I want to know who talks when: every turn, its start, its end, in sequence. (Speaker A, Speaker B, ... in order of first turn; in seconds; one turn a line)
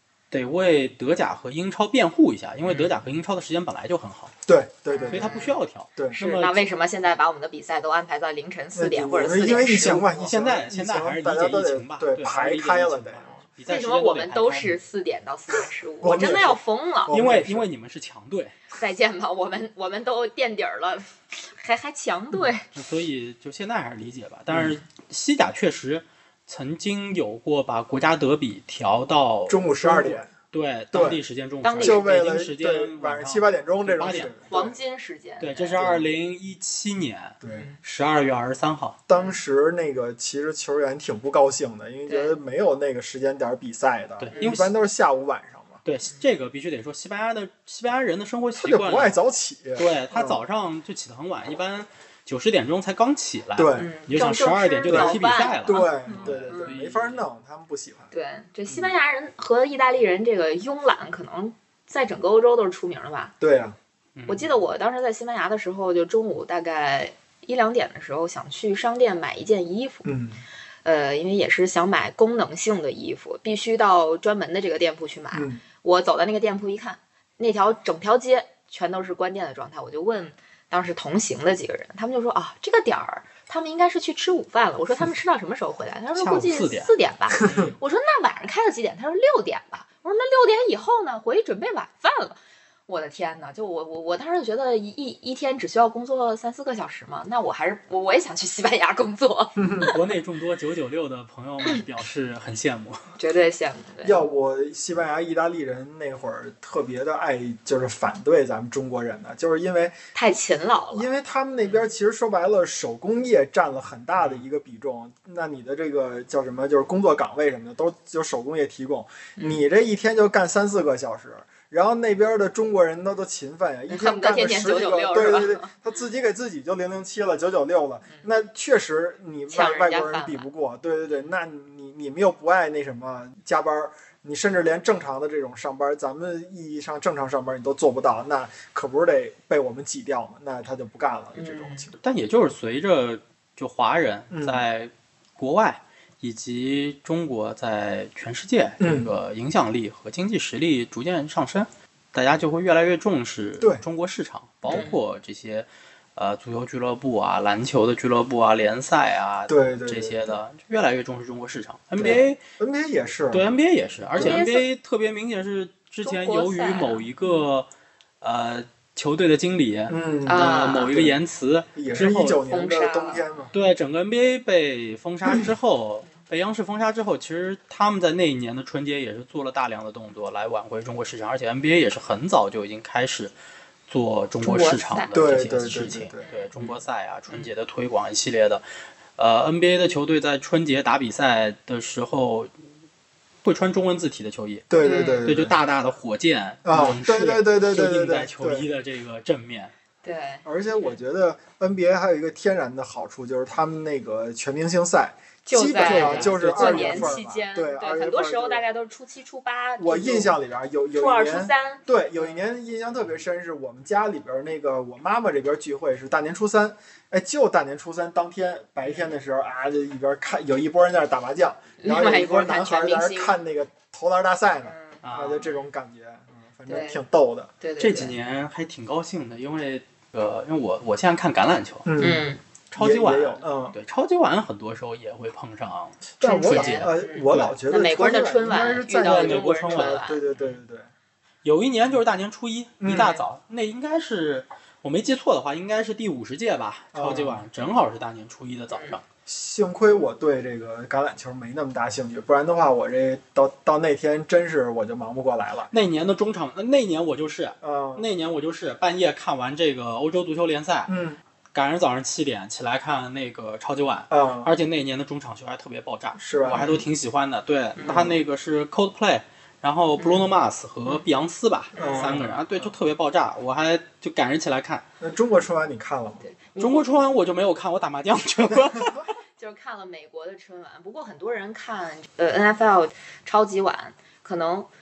Speaker A: 0.3-4.3
Speaker B: 4.5-6.2
Speaker C: 4.9-5.5
Speaker A: 5.1-6.7
Speaker C: 6.2-10.3
Speaker B: 8.7-13.4
Speaker A: 10.3-14.8
Speaker C: 13.7-17.1
Speaker B: 16.0-17.7
Speaker A: 17.1-18.5
Speaker C: 18.7-22.7
Speaker A: 22.7-34.3
Speaker B: 24.5-24.8
Speaker B: 29.5-30.3
Speaker B: 30.9-31.2
Speaker C: 31.6-32.1
Speaker B: 31.8-34.8
Speaker C: 34.1-35.9
Speaker A: 35.4-39.0
Speaker B: 35.7-36.0
Speaker B: 37.4-37.7
Speaker C: 37.5-37.8
Speaker B: 39.1-45.8
Speaker C: 42.1-42.3
Speaker A: 44.2-44.7
Speaker A: 45.8-49.1
Speaker B: 48.6-50.4
Speaker A: 49.8-57.2
Speaker B: 53.5-53.9
Speaker C: 53.8-56.7
Speaker B: 54.9-58.1
Speaker C: 58.1-63.3
Speaker B: 63.4-63.8
Speaker A: 64.2-64.5
Speaker C: 64.3-70.1
Speaker B: 70.0-70.4
Speaker C: 70.8-99.9
Speaker B: 75.3-75.6
Speaker A: 86.2-87.7
Speaker B: 87.4-87.7
Speaker B: 99.6-99.9
Speaker A: 99.9-103.1
Speaker C: 103.2-104.2
Speaker B: 104.0-109.9
Speaker C: 110.1-111.1
Speaker B: 110.9-141.9
Speaker C: 123.9-125.7
Speaker C: 129.5-130.5
Speaker C: 141.3-141.9
Speaker A: 142.0-162.4
Speaker B: 144.3-144.6
Speaker B: 148.8-149.1
Speaker C: 154.7-155.0
Speaker B: 159.5-160.2
Speaker B: 162.0-163.5
Speaker C: 162.0-162.2
Speaker A: 163.3-167.7
Speaker B: 164.1-164.4
Speaker C: 164.2-164.7
Speaker C: 166.0-167.4
Speaker A: 168.2-172.4
Speaker B: 169.9-171.2
Speaker C: 170.2-171.0
Speaker B: 171.8-173.5
Speaker C: 171.9-173.2
Speaker A: 173.5-183.3
Speaker B: 175.3-175.5
Speaker A: 183.9-188.6
Speaker C: 184.4-185.2
Speaker B: 185.1-186.7
Speaker C: 186.2-186.5
Speaker A: 189.2-192.5
Speaker A: 193.4-199.7
Speaker B: 194.7-195.5
Speaker C: 194.8-195.3
Speaker B: 196.6-198.7
Speaker C: 200.0-200.4
Speaker B: 200.4-208.6
Speaker C: 205.4-210.3
Speaker A: 205.7-207.1
Speaker B: 209.8-227.5
Speaker C: 210.9-212.3
Speaker C: 221.8-223.3
Speaker C: 224.7-225.6
Speaker A: 225.0-225.4
Speaker C: 226.7-227.0
Speaker C: 227.6-228.1
Speaker A: 227.8-231.9
Speaker B: 231.8-233.8
Speaker C: 232.0-232.4
Speaker A: 232.7-237.5
Speaker B: 236.2-240.9
Speaker C: 236.2-240.2
Speaker A: 238.9-240.1
Speaker A: 241.4-249.0
Speaker B: 242.8-243.2
Speaker C: 242.9-243.2
Speaker B: 246.9-247.5
Speaker B: 249.3-255.7
Speaker A: 255.7-260.9
Speaker B: 257.6-258.1
Speaker B: 260.9-261.2
Speaker A: 261.5-274.8
Speaker B: 264.1-264.5
Speaker B: 266.2-266.7
Speaker C: 266.5-266.8
Speaker C: 267.8-268.0
Speaker B: 267.8-268.2
Speaker C: 270.0-270.3
Speaker C: 271.7-272.2
Speaker B: 271.8-272.7
Speaker B: 275.0-276.2
Speaker C: 276.2-276.9
Speaker A: 276.6-279.1
Speaker C: 279.4-284.7